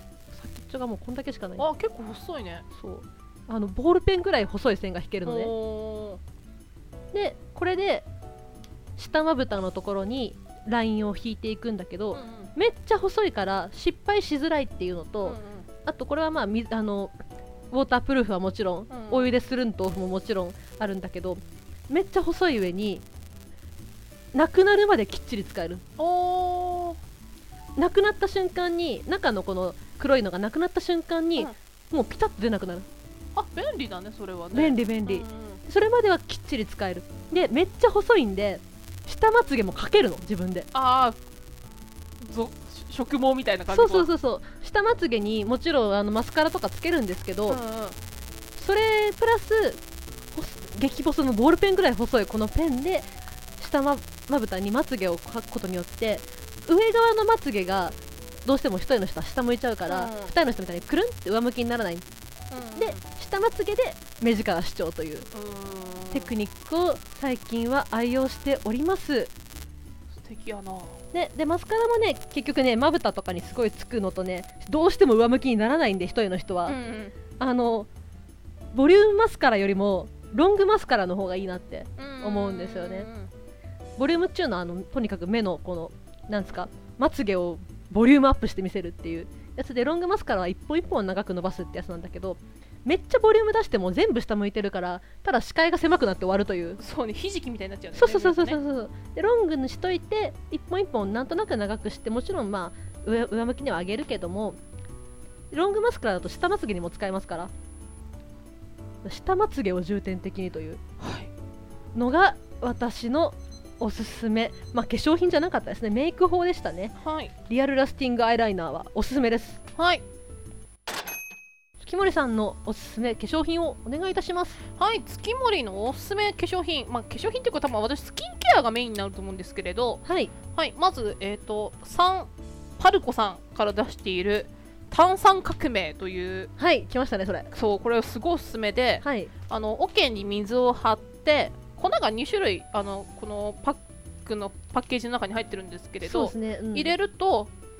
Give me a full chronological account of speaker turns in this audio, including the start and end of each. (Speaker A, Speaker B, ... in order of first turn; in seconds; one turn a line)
Speaker A: 0.3-1.7
Speaker B: 1.6-2.7
Speaker A: 2.7-5.5
Speaker B: 5.3-6.2
Speaker A: 7.1-8.1
Speaker A: 9.0-17.1
Speaker B: 12.1-12.5
Speaker B: 15.2-15.7
Speaker A: 17.7-23.0
Speaker B: 18.9-19.3
Speaker A: 24.3-25.8
Speaker B: 26.0-27.0
Speaker A: 27.8-32.9
Speaker B: 33.4-35.6
Speaker A: 34.5-40.7
Speaker B: 40.7-41.2
Speaker B: 42.2-44.1
Speaker A: 43.7-47.6
Speaker B: 47.5-48.0
Speaker A: 48.6-49.8
Speaker A: 50.4-62.0
Speaker B: 59.9-60.3
Speaker B: 62.5-63.0
Speaker A: 62.8-65.3
Speaker B: 65.3-66.3
Speaker A: 66.1-69.3
Speaker B: 70.1-71.0
Speaker A: 71.1-76.8
Speaker B: 76.7-77.2
Speaker A: 77.4-77.9
Speaker A: 78.7-83.1
Speaker B: 82.0-83.3
Speaker A: 84.0-96.8
Speaker B: 96.8-98.6
Speaker A: 97.9-104.6
Speaker A: 105.5-107.5
Speaker A: 109.0-110.8
Speaker B: 111.0-111.3
Speaker A: 112.0-116.9
Speaker B: 117.0-117.3
Speaker A: 117.5-119.6
Speaker B: 119.8-120.0
Speaker A: 121.8-124.6
Speaker B: 124.8-136.5
Speaker A: 130.1-130.3
Speaker A: 136.6-137.5
Speaker B: 137.5-147.5
Speaker A: 139.0-139.3
Speaker A: 146.0-146.9